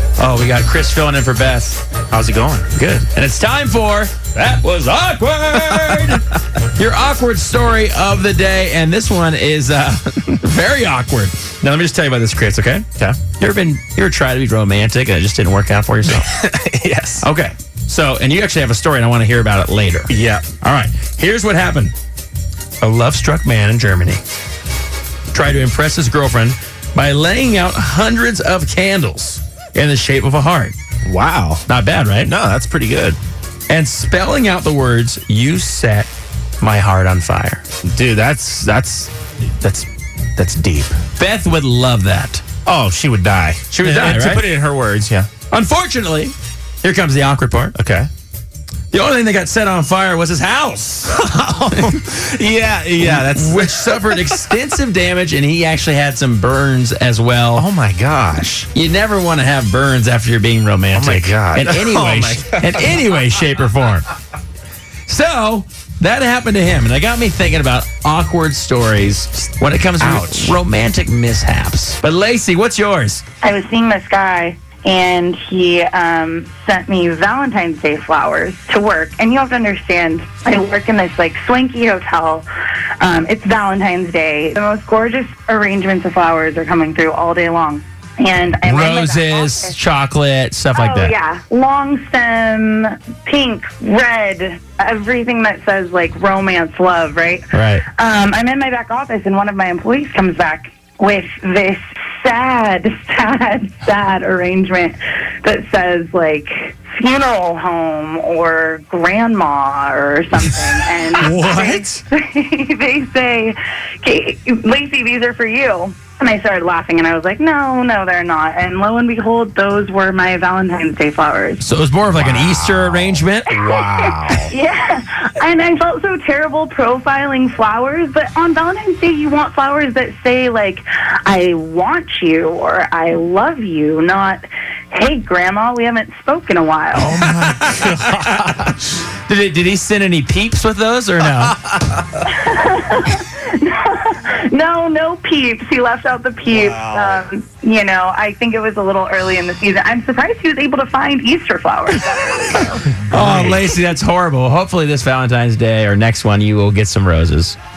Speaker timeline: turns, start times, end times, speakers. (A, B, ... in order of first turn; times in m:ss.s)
0:00.2-0:01.8 A
0:02.1-0:02.7 B
0:02.7-0:12.8 A
0:05.6-0:06.2 B
0:13.4-0:16.3 A
0:16.1-0:17.3 B
0:17.2-0:20.1 A
0:20.1-0:20.4 B
0:20.6-0:21.9 A
0:22.8-0:24.2 A
0:25.3-0:30.8 A
0:31.1-0:31.6 B
0:31.7-0:32.3 A
0:32.2-0:33.2 B
0:33.7-0:36.1 A
0:36.6-0:37.6 A
0:37.8-0:41.0 B
0:41.2-0:42.4 A
0:42.7-0:45.3 B
0:43.7-0:44.4 A
0:45.5-0:47.8 A
0:47.8-0:48.1 B
0:48.9-0:52.0 A
0:51.1-0:54.6 B
0:53.0-0:57.7 A
0:57.6-0:58.7 B
0:58.7-1:04.1 A
1:00.9-1:03.0 B
1:05.1-1:13.2 A
1:10.0-1:10.6 B
1:13.4-1:22.5 C
1:23.0-1:29.8 C
1:28.6-1:31.1 A
1:30.8-2:01.6 C
1:37.5-1:37.8 A
1:51.2-1:52.0 B
2:01.6-2:03.5 A
2:02.1-2:04.5 B
2:03.5-2:17.3 C
2:17.0-2:18.8 B
2:17.8-2:21.6 A
2:21.4-2:22.2 B
2:22.3-2:32.7 C
2:26.5-2:27.2 B
2:32.5-2:33.7 B
2:33.1-2:37.6 A